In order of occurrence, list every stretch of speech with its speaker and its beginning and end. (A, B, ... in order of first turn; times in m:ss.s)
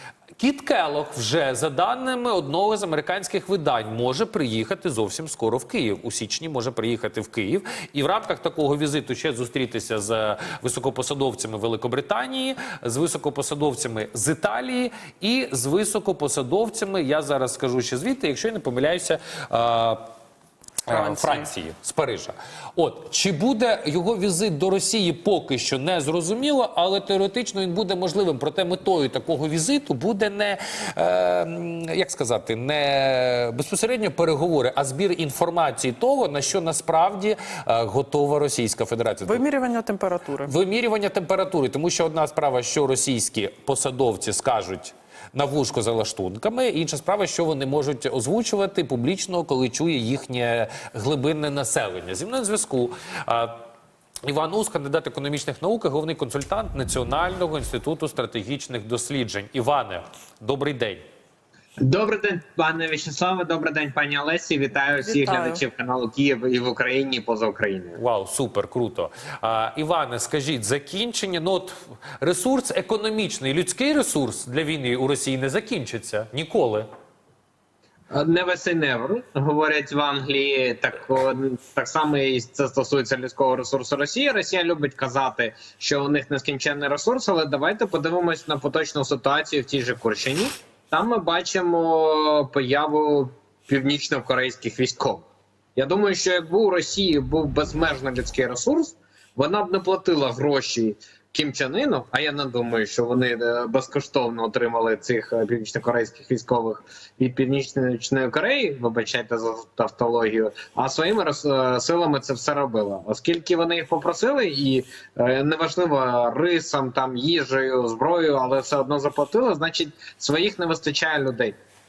0:00.4-0:20.0 A
0:20.9-0:39.4 A
0:20.9-0:21.5 B
0:39.3-0:40.5 B
0:40.4-0:53.6 A
0:54.3-1:01.0 A
1:01.8-1:08.0 C
1:05.1-1:05.6 B
1:08.0-1:16.9 A
1:18.1-2:01.6 C